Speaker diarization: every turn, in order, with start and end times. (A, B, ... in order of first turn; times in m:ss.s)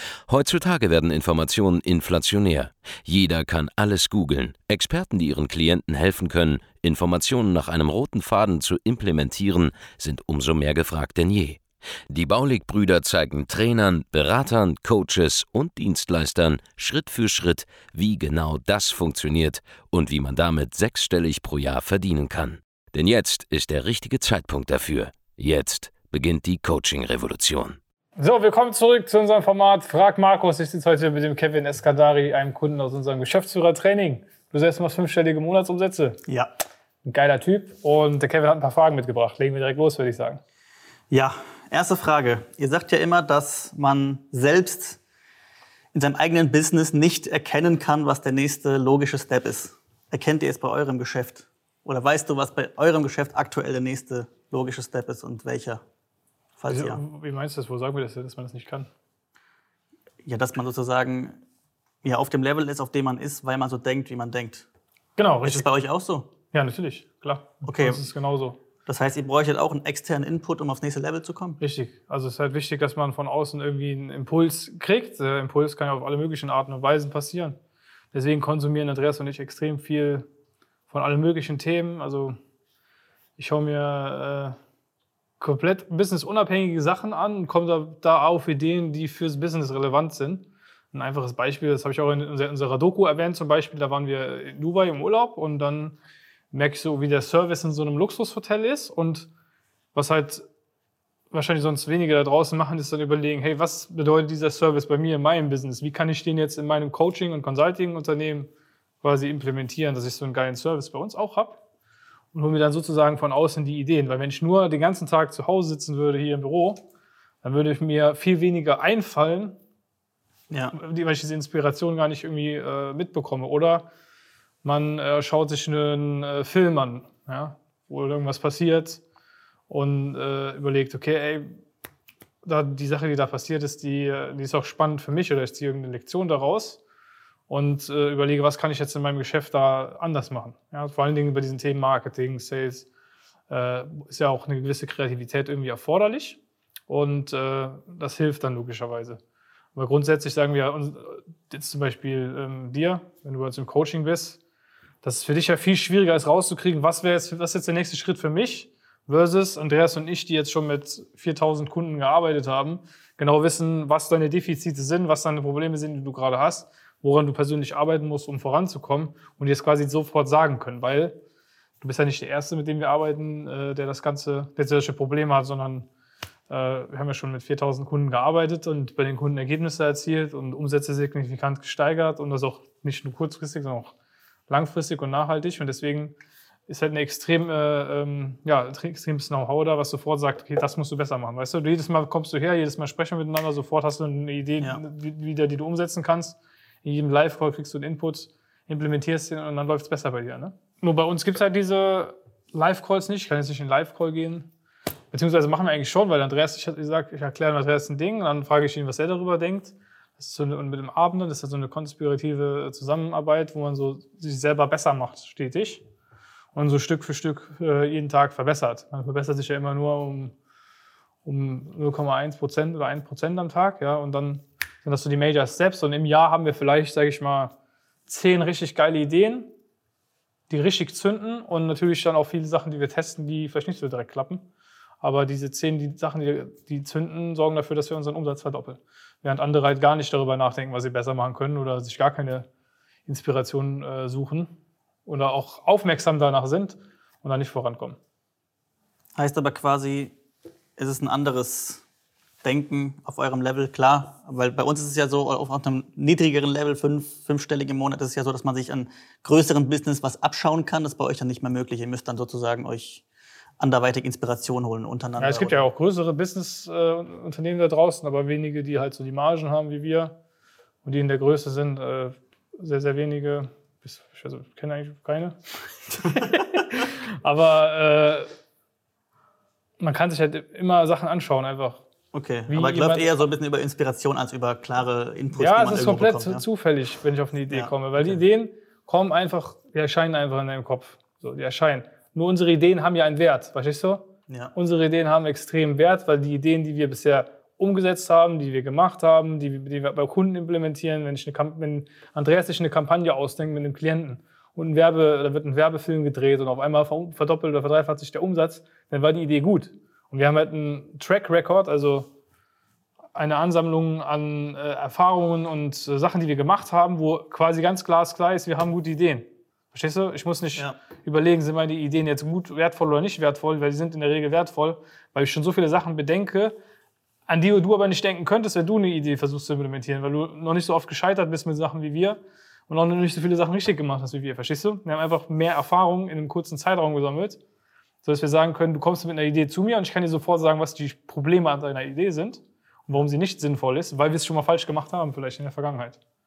0:00.3-0:11.6 A
0:12.1-0:27.8 A
0:28.2-0:36.2 B
0:37.0-0:40.4 B
0:41.1-0:45.0 C
0:45.9-0:55.8 C
0:56.6-0:57.0 C
0:56.7-0:58.9 B
1:00.2-1:01.4 C
1:02.0-1:04.7 C
1:05.2-1:05.7 B
1:05.4-1:06.3 C
1:06.5-1:08.6 B
1:07.6-1:08.0 C
1:08.9-1:11.6 C
1:11.6-1:17.6 B
1:18.1-1:20.3 B
1:20.9-1:22.4 B
1:23.4-1:24.6 B
1:25.4-1:36.0 B
1:36.5-1:39.3 B
1:39.9-1:40.4 B
1:41.3-1:48.5 B
1:49.0-1:51.6 B
1:52.3-1:56.8 B
1:57.4-1:59.6 B
2:00.5-2:00.8 C
2:00.7-2:03.9 B
2:04.6-2:09.0 B
2:09.7-2:11.6 B
2:12.4-2:16.8 B
2:17.5-2:22.9 B
2:23.5-2:29.2 B
2:29.8-2:34.4 B
2:35.0-2:51.2 B
2:51.8-2:55.9 B
2:56.5-3:03.9 B
3:04.5-3:06.2 B
3:06.7-3:24.5 B
3:25.1-3:35.8 B
3:36.5-3:40.4 B
3:41.2-3:47.5 B
3:48.1-3:49.5 B
3:50.5-3:54.5 B
3:55.0-4:02.5 B
4:03.1-4:04.5 B
4:05.1-4:08.0 B
4:09.2-4:10.2 C
4:10.8-4:11.8 C
4:12.4-4:23.0 C
4:23.6-4:25.7 C
4:25.2-4:30.2 B
4:30.8-4:38.3 B
4:39.8-4:41.8 B
4:42.1-4:46.4 C
4:42.5-4:43.2 B
4:45.3-5:12.1 B
4:47.5-4:48.2 C
5:13.1-5:26.6 B
5:27.3-5:37.4 B
5:38.0-5:46.0 B